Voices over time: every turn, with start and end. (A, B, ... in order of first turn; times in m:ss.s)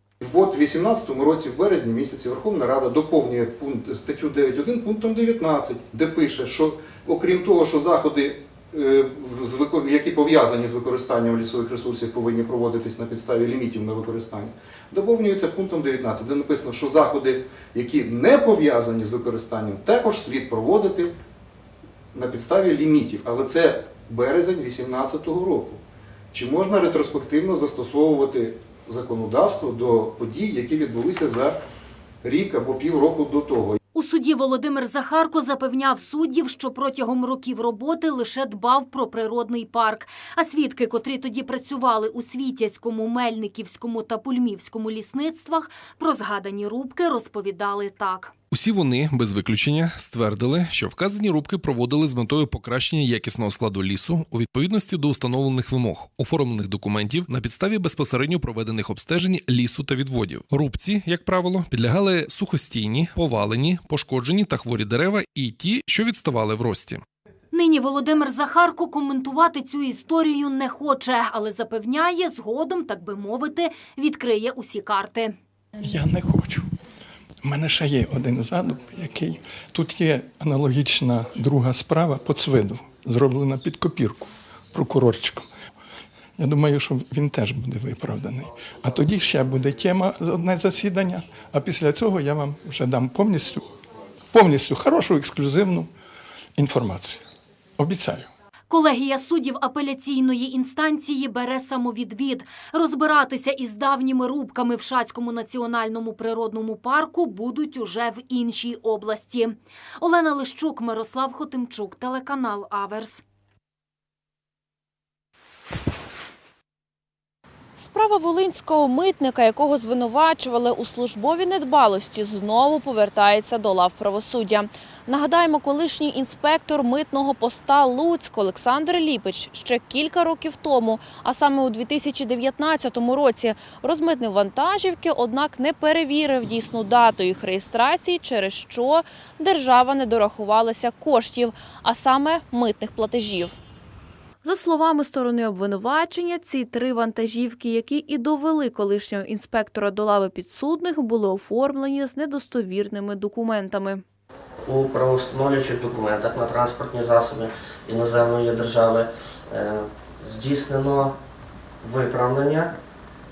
0:00.2-0:21.1 A
0:22.1-0:25.8 A
0:26.3-0:31.6 A
0:32.2-0:33.8 A
0:33.9-0:48.3 B
0:48.5-1:07.0 C
1:07.5-1:15.3 B
1:15.8-1:16.7 D
1:17.4-1:25.5 D
1:26.4-1:33.7 D
1:34.3-1:35.9 D
1:36.6-1:37.2 D
1:37.8-1:38.3 D
1:38.7-1:53.2 B
1:57.8-2:23.6 E
2:24.4-2:34.0 E
2:34.7-2:41.2 F
2:41.8-2:42.7 F